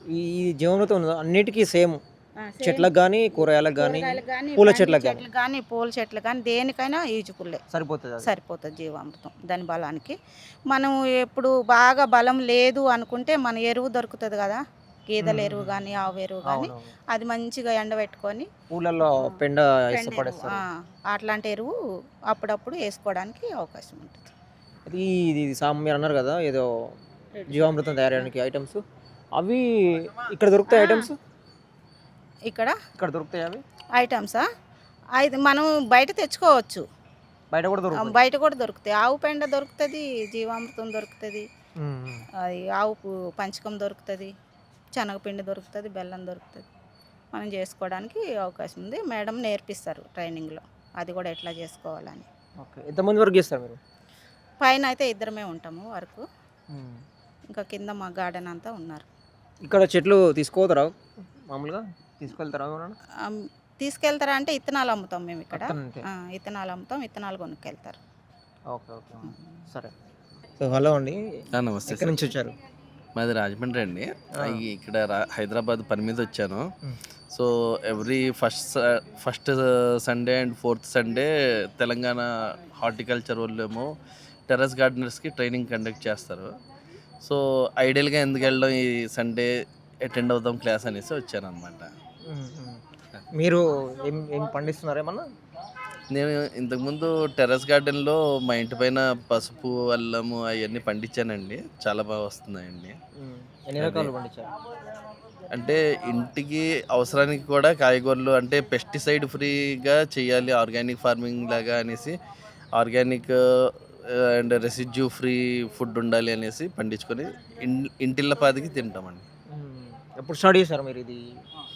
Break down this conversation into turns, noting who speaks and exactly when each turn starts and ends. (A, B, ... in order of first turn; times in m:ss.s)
0:00.1-0:02.0 A
0:02.4-0:07.6 B
0:02.6-0:05.2 A
0:07.7-0:08.3 A
0:08.2-0:10.2 B
0:10.7-0:18.5 B
0:15.2-0:15.9 A
0:16.5-0:16.9 A
0:18.7-0:20.6 A
0:19.1-0:19.4 B
0:19.9-0:21.7 B
0:22.3-0:24.3 B
0:24.9-0:26.7 A
0:27.4-0:28.3 B
0:27.5-0:28.8 A
0:29.3-0:31.2 A
0:30.7-0:31.1 B
0:32.5-0:32.8 B
0:33.0-0:33.6 A
0:33.9-0:34.4 B
0:35.2-0:36.8 B
0:37.5-0:38.2 A
0:38.0-0:41.5 B
0:41.8-0:42.3 A
0:42.4-0:44.3 B
0:45.0-0:46.7 B
0:47.3-0:52.3 B
0:52.6-0:53.8 A
0:54.6-0:56.2 B
0:56.7-0:57.0 A
0:57.5-0:59.0 B
0:59.6-1:00.9 A
1:01.5-1:03.0 A
1:03.2-1:08.0 B
1:05.5-1:06.0 A
1:08.7-1:09.9 A
1:10.6-1:12.6 A
1:11.5-1:12.2 C
1:13.2-1:16.6 C
1:17.3-1:23.9 C
1:24.5-1:26.5 C
1:27.2-1:29.5 C
1:30.0-1:31.9 C
1:32.3-1:32.8 A
1:33.4-1:35.3 A
1:36.1-1:43.0 C
1:43.2-1:44.5 A
1:43.8-1:44.1 C
1:45.5-1:52.2 C
1:52.8-1:59.2 C
1:59.5-2:01.2 A